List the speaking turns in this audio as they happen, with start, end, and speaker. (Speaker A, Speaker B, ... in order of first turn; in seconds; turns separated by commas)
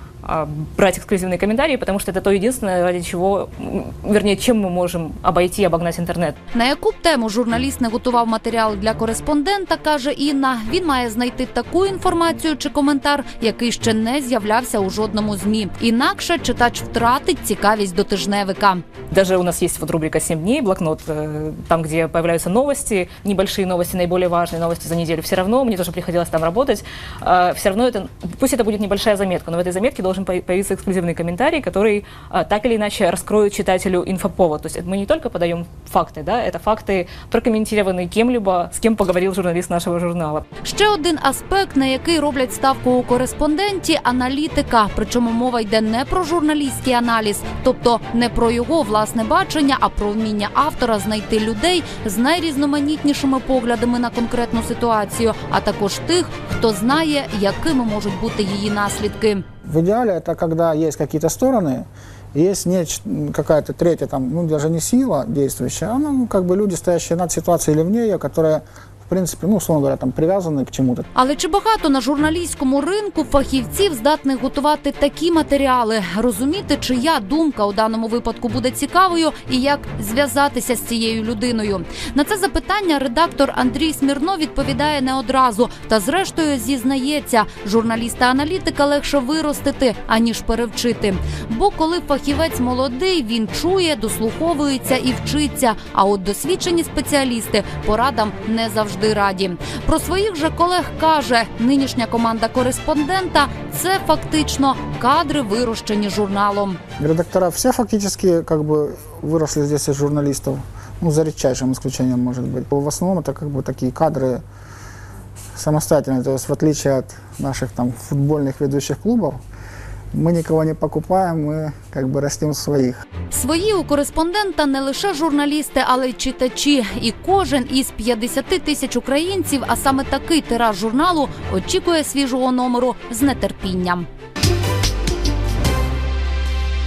Speaker A: 0.2-6.4, Speaker B: 6.5-18.8, Speaker A: 19.1-40.4, Speaker B: 40.6-59.4, Speaker C: 59.6-71.1, Speaker B: 71.1-106.8, Speaker C: 107.0-114.4, Speaker C: 115.5-119.4, Speaker C: 120.1-123.0, Speaker B: 123.3-134.1